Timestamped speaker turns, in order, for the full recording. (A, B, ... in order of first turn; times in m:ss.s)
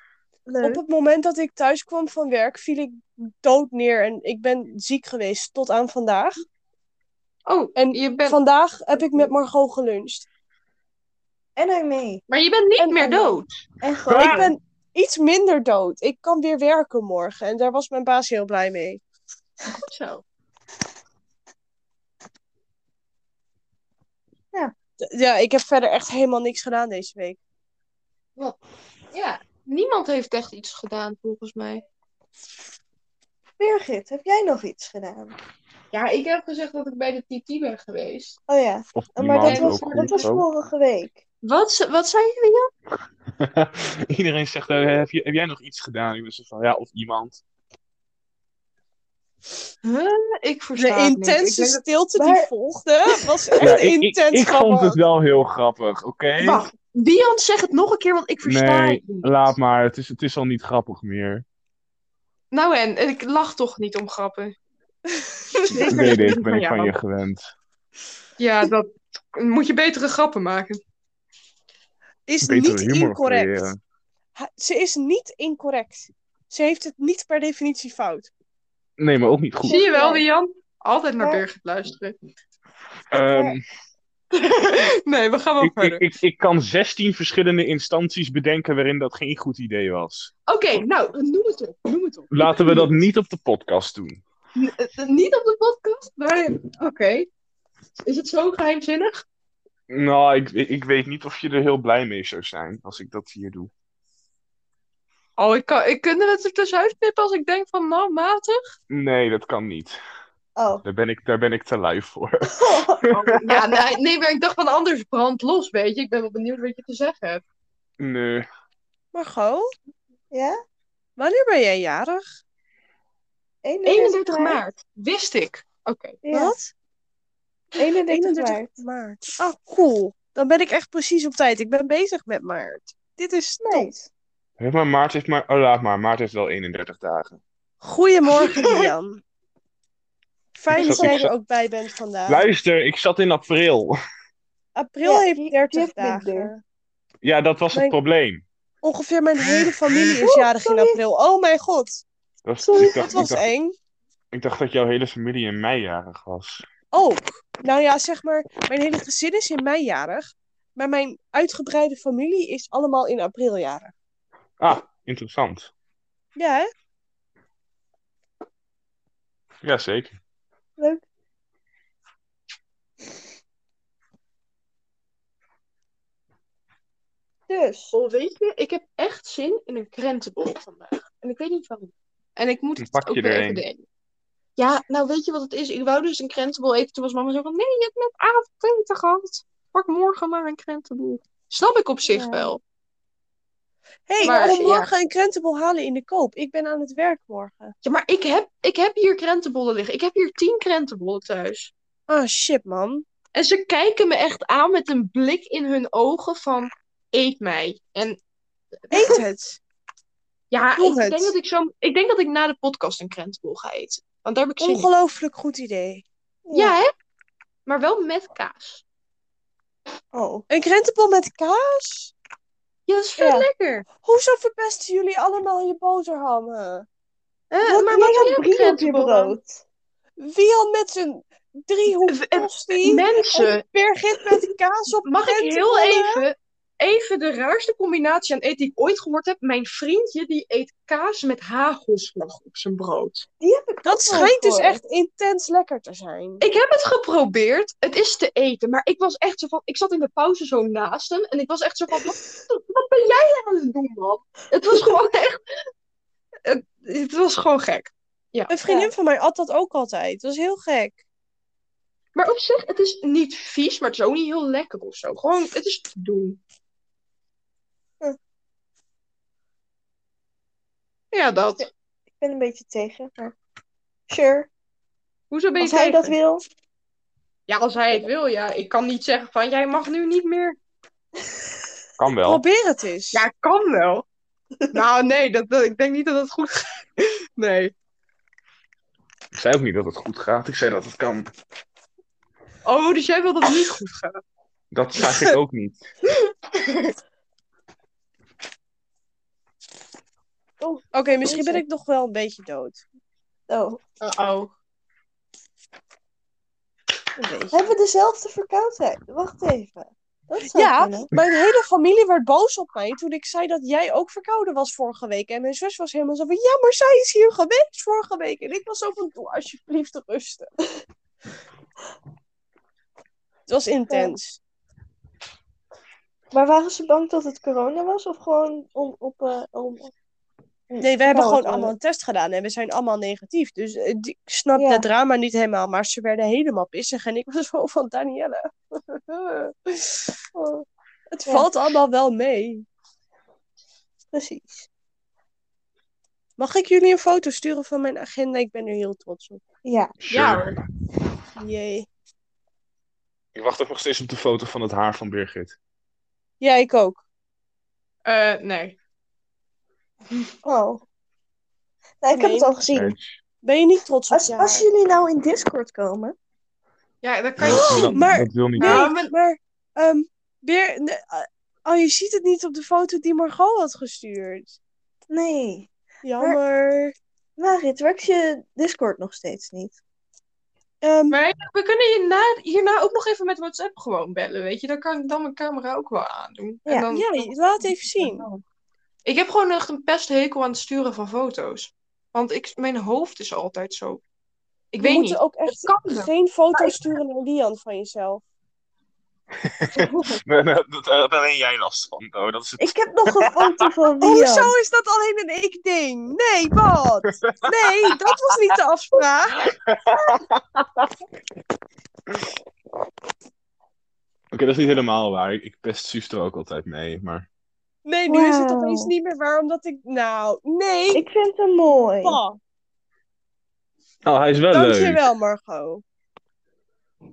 0:00.4-0:00.8 A
0:00.6-0:06.4 B
0:07.5-0:08.4 C
0:07.8-0:10.3 B
0:11.6-0:12.2 A
0:12.3-0:13.6 C
0:12.8-0:13.3 B
0:13.8-0:14.5 A
0:14.1-0:14.4 D
0:14.1-0:19.0 B
0:19.7-0:20.2 C
0:25.0-0:27.4 B
0:29.1-0:31.8 C
0:33.6-0:35.4 A
0:35.9-0:38.4 C
0:38.5-0:41.2 A
0:39.0-0:40.4 D
0:39.4-0:40.3 C
0:41.4-0:42.7 C
0:43.4-0:47.4 D
0:49.8-0:51.8 C
0:50.8-0:55.0 B
0:52.2-0:52.5 A
0:53.6-0:56.6 D
0:56.4-0:59.5 C
0:58.4-1:01.4 D
1:02.5-1:04.5 C
1:05.7-1:06.9 C
1:05.7-1:06.0 B
1:05.8-1:07.5 D
1:08.4-1:10.8 C
1:12.3-1:13.7 B
1:12.4-1:13.8 D
1:14.4-1:18.3 B
1:19.0-1:19.8 D
1:19.6-1:20.2 A
1:19.6-1:22.2 C
1:23.1-1:23.6 D
1:23.3-1:23.6 A
1:24.3-1:26.0 C
1:25.6-1:30.3 D
1:30.5-1:33.0 C
1:32.3-1:34.2 D
1:34.6-1:37.3 C
1:38.0-1:39.2 C
1:39.9-1:43.7 D
1:45.4-1:48.6 C
1:48.9-1:50.0 D
1:50.6-1:50.8 A
1:50.8-1:53.5 D
1:52.5-1:53.0 A
1:53.1-1:57.4 C
1:58.0-1:58.5 D
1:59.1-1:59.7 B
2:00.3-2:00.6 A
2:01.2-2:02.2 B
2:03.6-2:04.6 A
2:03.8-2:06.2 C
2:06.2-2:06.6 A
2:06.3-2:06.7 B
2:07.8-2:08.8 A
2:08.1-2:13.9 B
2:13.6-2:14.1 A
2:14.6-2:17.4 D
2:17.8-2:19.2 B
2:18.3-2:18.9 C
2:20.5-2:22.4 B
2:20.7-2:21.3 D
2:20.8-2:21.2 A
2:22.3-2:24.0 D
2:24.8-2:26.6 B
2:25.0-2:26.5 A
2:27.2-2:28.4 D
2:28.8-2:32.0 B
2:29.9-2:31.0 A
2:32.4-2:33.5 D
2:32.6-2:33.3 A
2:32.8-2:33.7 B
2:34.3-2:36.6 D
2:36.9-2:43.9 B
2:44.6-2:45.7 D
2:46.4-2:46.7 B
2:49.6-2:50.1 D
2:50.8-2:51.0 A
2:57.5-2:57.9 A
2:57.9-3:03.8 C
3:02.8-3:03.6 D
3:04.6-3:12.6 C
3:12.1-3:12.5 A
3:14.1-3:17.7 B
3:14.2-3:14.8 A
3:14.2-3:14.9 C
3:17.8-3:21.7 C
3:22.1-3:23.0 B
3:23.3-3:28.2 C
3:28.9-3:29.6 B
3:28.9-3:29.2 C
3:30.5-3:34.9 C
3:30.8-3:31.3 B
3:34.6-3:36.0 B
3:36.4-3:36.8 A
3:36.5-3:36.9 C
3:37.6-3:38.8 C
3:40.1-3:40.4 A
3:40.5-3:42.1 B
3:42.9-3:43.9 C
3:43.2-3:43.4 A
3:44.0-3:46.8 B
3:47.5-3:49.4 C
3:47.6-3:49.6 A
3:50.2-3:56.2 B
3:52.0-3:53.6 C
3:55.0-4:03.3 C
4:03.4-4:04.8 A
4:03.8-4:06.4 B
4:06.4-4:15.4 C
4:16.4-4:18.6 C
4:18.5-4:21.0 B
4:22.1-4:26.4 C
4:31.1-4:31.7 C
4:32.2-4:33.3 A
4:34.1-4:34.5 A
4:35.3-4:36.1 C
4:35.6-4:36.4 A
4:37.5-4:40.6 C
4:42.0-4:42.4 D
4:42.1-4:43.2 B
4:43.1-4:44.0 C
4:44.7-4:47.7 C
4:49.3-4:51.3 D
4:52.6-4:54.2 C
4:54.7-4:55.8 D
4:56.5-4:56.9 C
5:00.6-5:01.6 A
5:00.9-5:02.8 B
5:03.5-5:03.8 A
5:04.0-5:04.5 C
5:07.2-5:07.6 B
5:07.5-5:11.1 A
5:10.5-5:20.5 B
5:23.5-5:24.4 B
5:23.9-5:24.2 A
5:26.3-5:29.9 A
5:30.7-5:31.7 A
5:30.8-5:40.1 B
5:34.5-5:34.8 A
5:40.3-5:40.6 A
5:41.1-5:42.6 B
5:44.1-5:44.7 A
5:46.4-5:49.4 B
5:49.6-5:49.9 A
5:50.0-5:50.6 D
5:50.1-5:50.6 C
5:51.4-5:51.9 B
5:53.3-5:55.5 D
5:56.4-5:57.0 B
5:58.0-5:58.8 C
6:00.4-6:00.8 A
6:02.0-6:03.0 A
6:02.1-6:02.5 B
6:02.7-6:03.2 D
6:03.4-6:04.6 B
6:04.1-6:06.2 A
6:07.0-6:09.1 C
6:07.4-6:08.9 D
6:07.5-6:14.5 B
6:15.1-6:15.7 A
6:16.0-6:16.9 B
6:17.4-6:19.8 A
6:20.8-6:21.2 B
6:21.1-6:28.4 C
6:26.9-6:28.2 B
6:29.0-6:34.0 C
6:34.7-6:36.1 C
6:34.8-6:38.2 B
6:39.5-6:43.5 D
6:39.7-6:40.1 C
6:42.6-6:44.5 A
6:44.0-6:49.5 B
6:47.2-6:47.7 D
6:49.5-6:50.7 D
6:54.3-6:57.2 D
6:57.8-7:01.0 B
6:58.1-6:58.9 A
7:00.9-7:02.2 A
7:02.0-7:02.4 B
7:04.0-7:05.0 D
7:04.5-7:05.8 B